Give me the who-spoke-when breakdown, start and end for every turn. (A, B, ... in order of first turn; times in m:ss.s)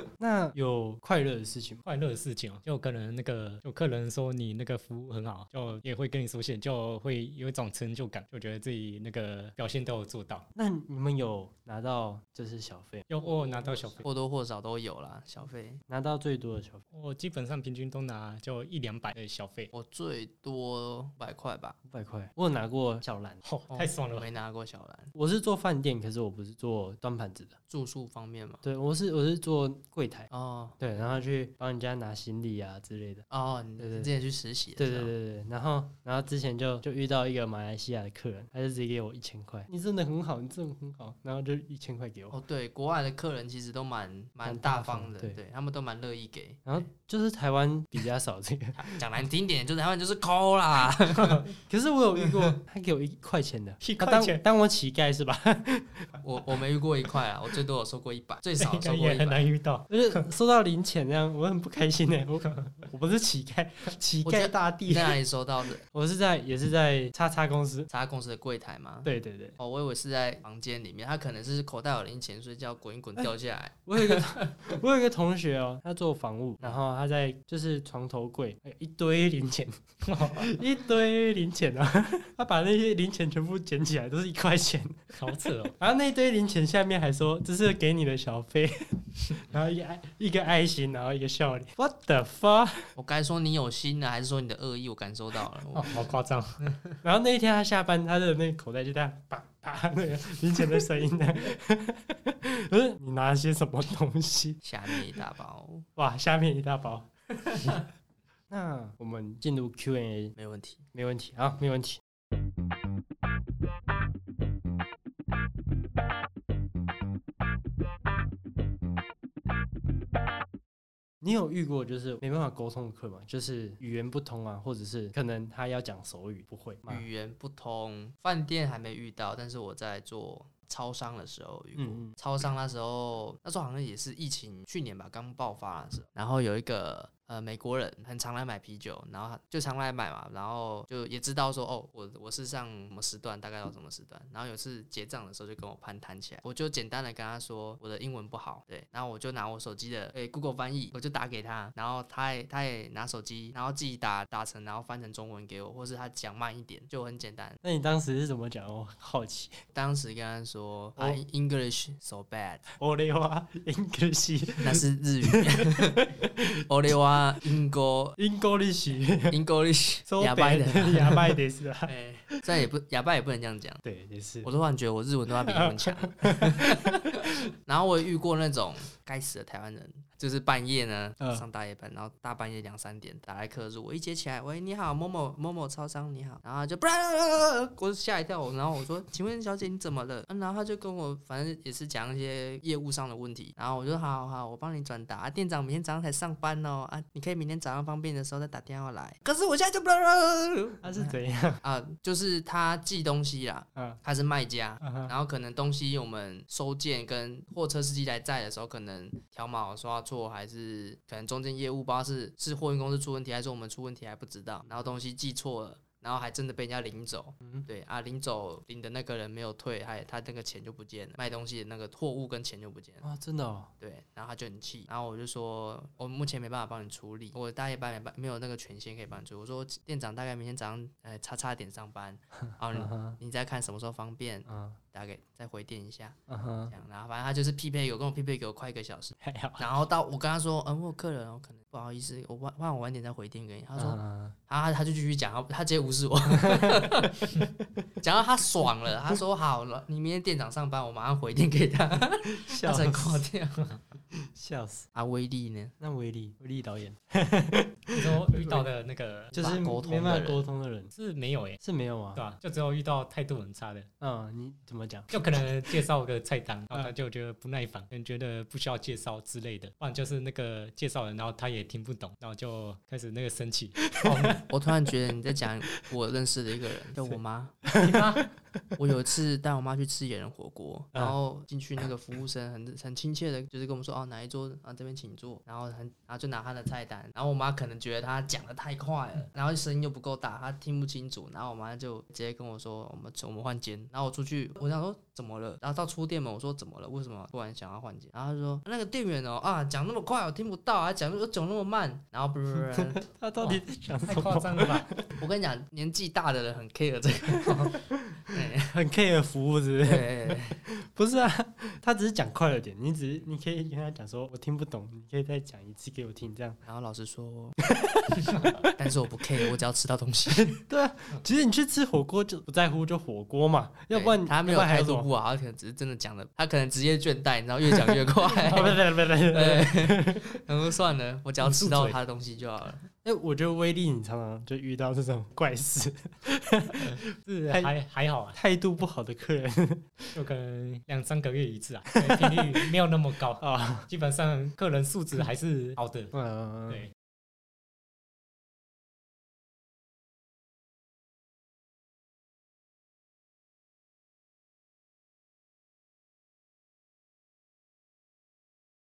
0:00.2-0:01.8 A
0:01.8-0:10.5 B
0:10.6-0:13.1 A
0:13.1-0:14.0 B
0:13.7-0:14.0 A
0:14.0-0:15.8 C
0:15.9-0:16.8 A
0:16.9-0:19.7 B
0:19.7-0:21.8 C
0:21.9-0:23.4 A
0:23.4-0:24.3 B
0:23.7-0:25.1 C
0:25.1-0:27.6 A
0:27.7-0:28.6 C
0:28.6-0:33.3 A
0:30.3-0:30.8 C
0:33.3-0:35.1 C
0:33.8-0:34.1 A
0:34.8-0:42.4 A
0:42.3-0:46.7 C
0:44.4-0:45.4 A
0:46.7-0:49.0 A
0:48.9-0:51.5 C
0:51.2-0:51.5 B
0:51.7-0:56.2 A
0:53.8-0:54.4 B
0:56.2-0:59.4 C
0:58.6-1:00.2 B
0:59.9-1:05.2 A
1:04.2-1:05.8 C
1:05.9-1:07.9 A
1:07.9-1:14.6 C
1:09.0-1:09.6 A
1:13.9-1:32.9 A
1:20.0-1:20.5 B
1:25.1-1:25.8 B
1:33.0-1:36.1 C
1:35.7-1:36.6 B
1:36.6-1:37.0 C
1:37.0-1:45.0 A
1:44.6-1:45.9 C
1:46.0-1:47.1 A
1:48.5-1:50.4 A
1:50.4-1:50.8 C
1:50.9-1:52.0 A
2:01.2-2:07.0 A
2:06.9-2:37.6 C
2:11.8-2:12.2 A
2:37.6-2:39.6 A
2:39.7-2:42.7 C
2:42.8-2:46.5 A
2:44.6-2:46.1 C
2:46.7-2:48.2 C
2:48.2-2:49.4 A
2:49.3-2:53.8 C
2:50.1-2:52.5 A
2:53.8-2:54.5 A
2:54.4-3:43.0 C
2:55.5-2:57.3 A
3:20.8-3:21.6 A
3:24.8-3:25.1 A
3:43.0-3:43.7 A
3:43.8-3:56.2 C
3:52.5-3:53.2 A
3:54.5-3:54.8 A
3:56.3-3:56.7 A
3:56.7-4:07.4 C
3:59.2-3:59.7 A
4:03.8-4:04.4 A
4:06.4-4:06.9 A
4:08.0-4:13.8 C
4:12.3-4:13.3 A
4:14.2-4:14.9 A
4:15.0-4:15.7 C
4:15.8-4:18.6 A
4:17.9-4:19.6 B
4:19.3-4:20.9 A
4:19.4-4:20.4 C
4:21.0-4:21.6 B
4:21.6-4:22.2 A
4:22.2-4:23.9 B
4:24.0-4:25.1 A
4:25.1-4:34.4 B
4:33.9-4:34.4 A
4:34.1-4:37.6 C
4:37.6-4:38.6 A
4:37.8-4:38.3 B
4:38.8-5:03.0 C
5:02.7-5:05.1 A
5:03.4-5:04.9 B
5:05.2-5:08.8 C
5:07.4-5:16.6 A
5:09.8-5:10.6 C
5:16.6-5:17.6 C
5:17.7-5:18.7 A
5:18.6-5:20.6 C
5:20.4-5:25.1 A
5:23.9-5:32.8 C
5:27.7-5:30.4 A
5:31.4-5:32.0 B
5:33.0-5:37.7 A
5:36.8-5:38.4 B
5:38.3-5:40.2 A
5:40.1-5:46.1 B
5:41.9-5:42.7 A
5:43.4-5:43.9 A
5:46.1-5:46.8 A